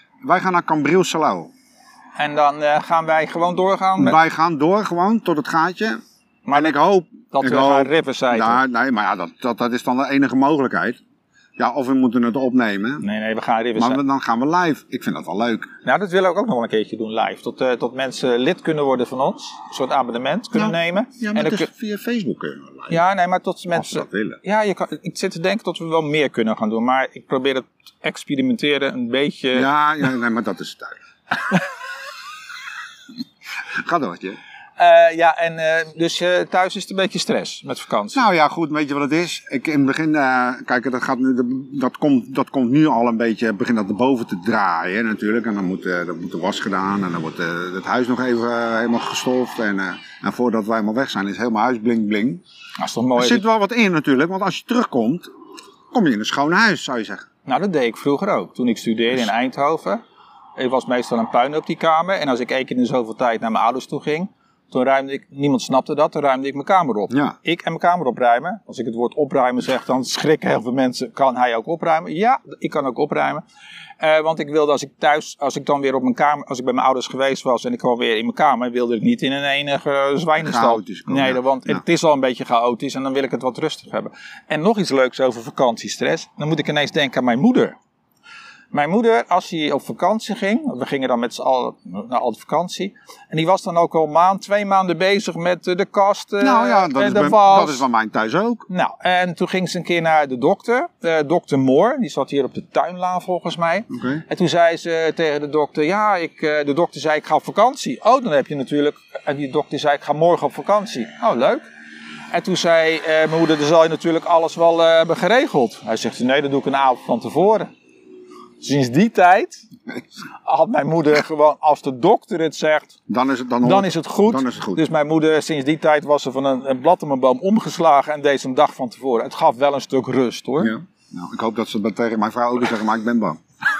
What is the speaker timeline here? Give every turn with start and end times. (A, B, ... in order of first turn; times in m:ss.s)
0:00.2-0:01.5 A
0:02.2-0:04.2 B
0:04.0-0:06.0 A
0:06.4-0:06.8 B
0:06.5-0:11.0 A
0:07.3-0:08.6 B
0:11.6-0:13.0 A
0:13.0-0:14.0 B
0:13.8-0:15.7 A
0:15.8-0:21.7 B
0:20.5-0:23.0 A
0:22.9-0:29.7 B
0:23.7-0:24.4 A
0:29.5-0:31.0 A
0:33.8-0:34.4 A
0:34.8-0:38.2 B
0:38.1-0:52.4 A
0:52.8-0:53.4 B
0:53.2-0:55.3 A
0:55.9-0:57.2 A
0:57.4-1:00.0 B
1:00.6-1:13.4 B
1:07.1-1:07.4 A
1:14.0-1:27.8 B
1:20.4-1:21.8 A
1:28.7-1:37.8 B
1:36.4-1:38.7 A
1:38.7-1:51.6 B
1:43.9-1:44.2 A
1:52.3-1:57.7 B
1:58.6-1:59.6 B
2:00.4-2:02.9 B
2:03.1-2:04.8 A
2:03.6-2:10.7 B
2:10.6-2:13.4 A